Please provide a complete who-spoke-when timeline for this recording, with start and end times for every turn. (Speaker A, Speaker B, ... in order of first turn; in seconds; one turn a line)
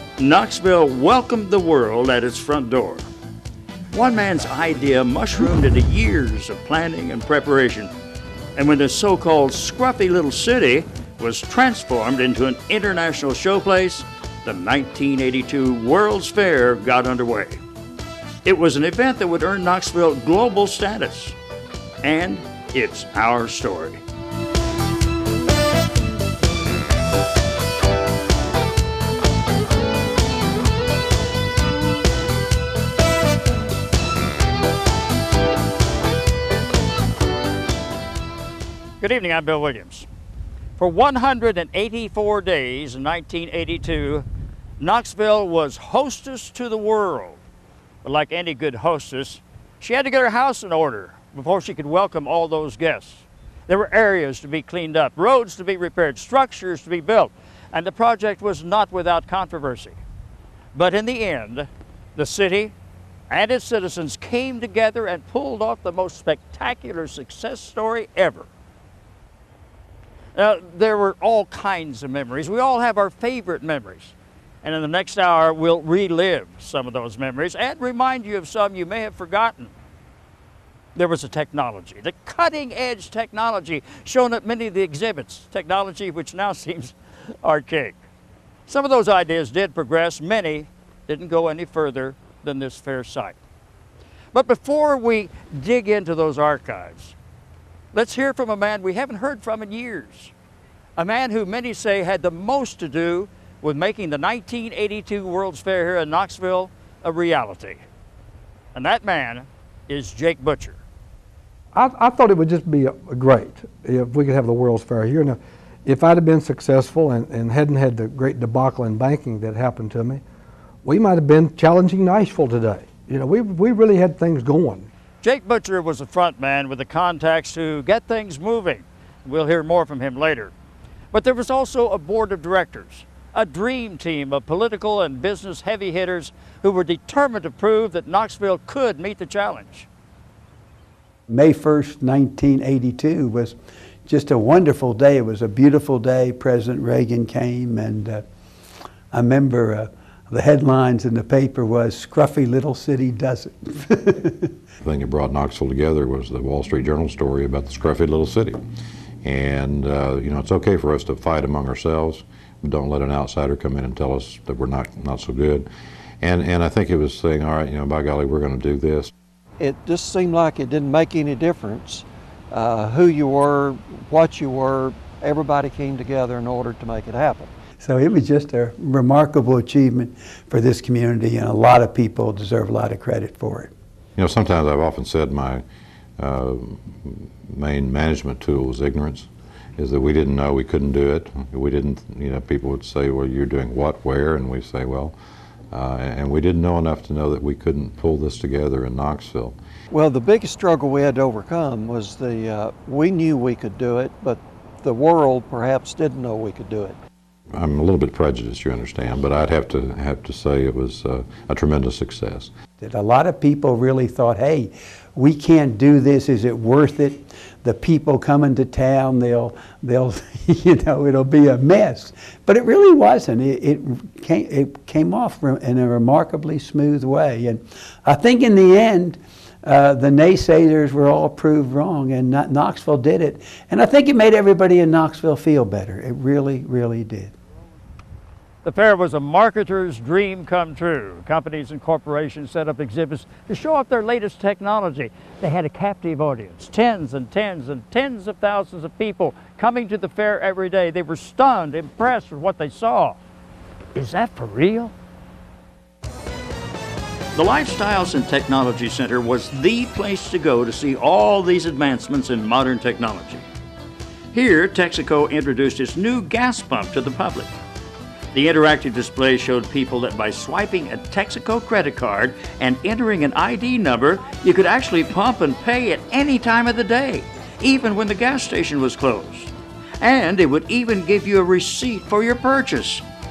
Speaker A: 0.2-3.1
Speaker A: 3.9-7.9
Speaker A: 8.6-17.6
Speaker A: 18.4-21.4
Speaker A: 22.0-24.0
Speaker A: 39.0-40.1
Speaker A: 40.8-44.3
Speaker A: 44.8-47.4
Speaker A: 48.0-60.0
Speaker A: 60.7-62.7
Speaker A: 63.3-68.5
Speaker A: 70.3-79.7
Speaker A: 81.0-88.0
Speaker A: 88.7-93.4
Speaker A: 94.3-97.2
Speaker A: 97.9-100.3
Speaker A: 101.0-107.8
Speaker A: 108.7-110.8
Speaker B: 111.7-120.2
Speaker B: 120.8-124.9
Speaker A: 125.2-130.5
Speaker A: 131.1-139.9
Speaker C: 141.3-148.3
Speaker C: 149.1-154.5
Speaker D: 154.8-158.6
Speaker D: 159.2-165.7
Speaker D: 166.2-169.1
Speaker E: 169.6-177.5
Speaker C: 177.8-183.7
Speaker D: 184.2-185.6
Speaker D: 186.2-195.2
Speaker D: 195.7-199.6
Speaker E: 199.9-207.0
Speaker D: 207.5-212.5
Speaker C: 212.8-237.3
Speaker A: 238.6-253.2
Speaker A: 253.9-254.9
Speaker A: 257.4-263.4
Speaker A: 264.3-267.5
Speaker A: 268.3-283.0